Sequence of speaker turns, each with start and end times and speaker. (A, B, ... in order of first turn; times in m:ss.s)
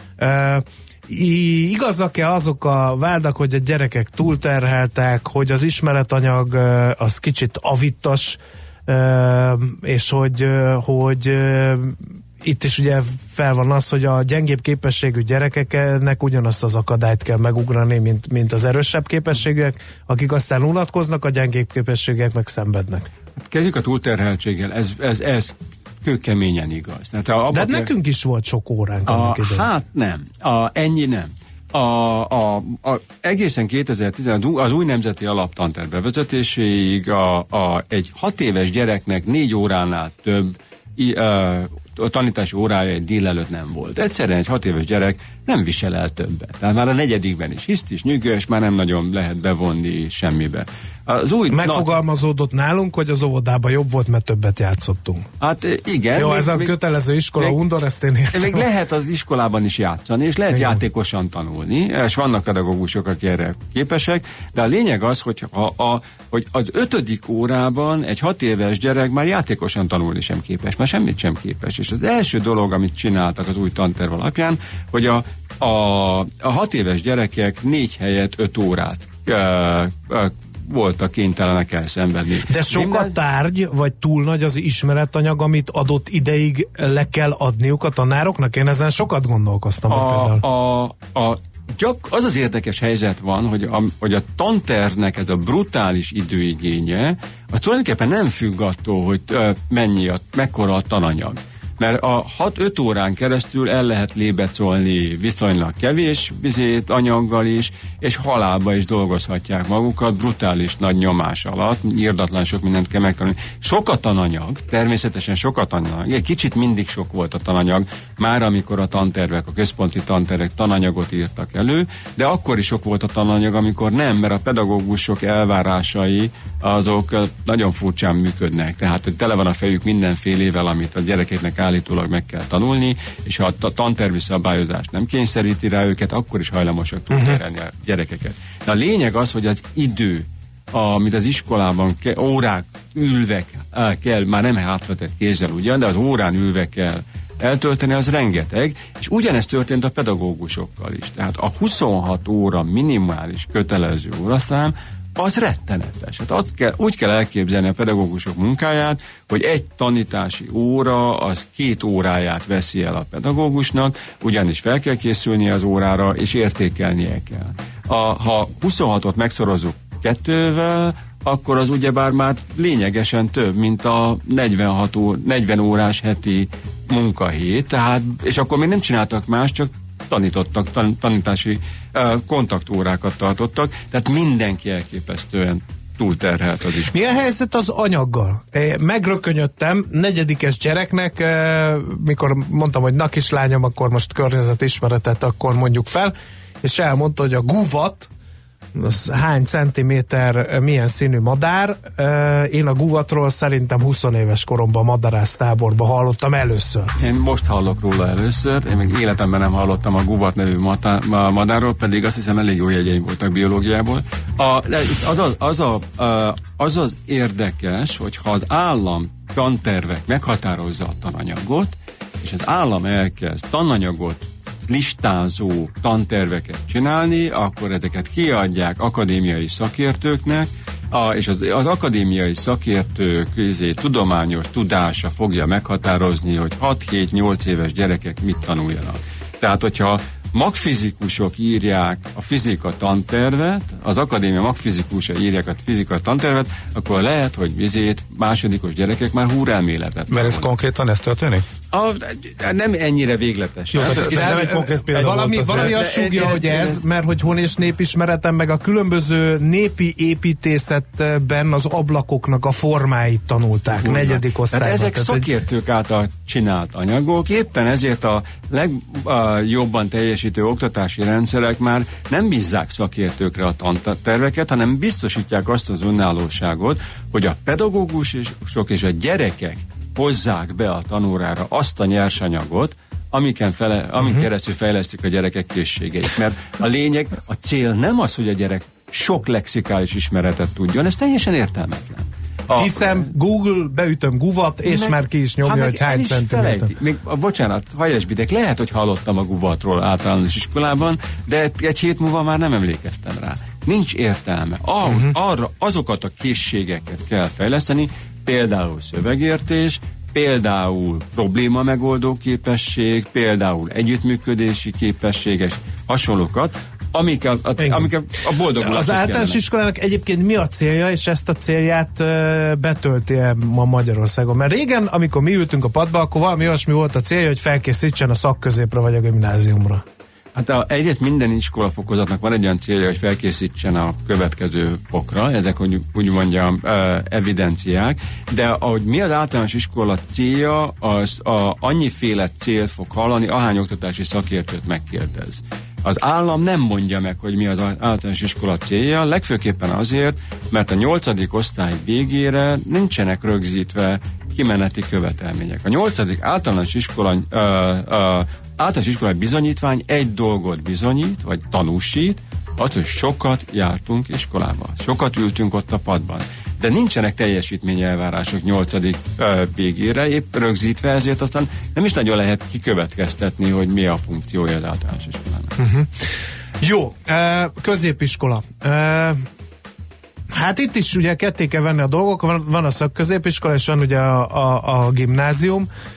0:00.2-0:23.1 A
0:23.4-0:27.9 B
0:27.5-0:29.6 A
0:29.1-0:52.0 B
0:51.5-0:55.2 A
0:55.4-0:56.8 B
0:56.2-0:58.7 A
0:58.3-1:23.2 B
1:00.5-1:00.8 A
1:22.5-1:30.4 A
1:29.9-3:07.0 B
2:17.1-2:17.4 A
3:06.9-3:18.1 A
3:18.8-3:27.0 A
3:27.0-4:10.5 B
4:10.1-4:11.4 C
4:11.7-4:16.8 B
4:13.7-4:15.8 C
4:13.9-4:25.3 A
4:23.8-4:53.1 B
4:44.0-4:44.2 A
4:52.6-4:56.7 A
4:54.6-5:19.4 B
5:04.8-5:05.1 A
5:17.6-5:17.9 A
5:18.6-5:29.8 A
5:30.4-6:15.6 B
6:15.6-6:15.9 A
6:16.6-6:19.2 A
6:20.3-6:25.7 A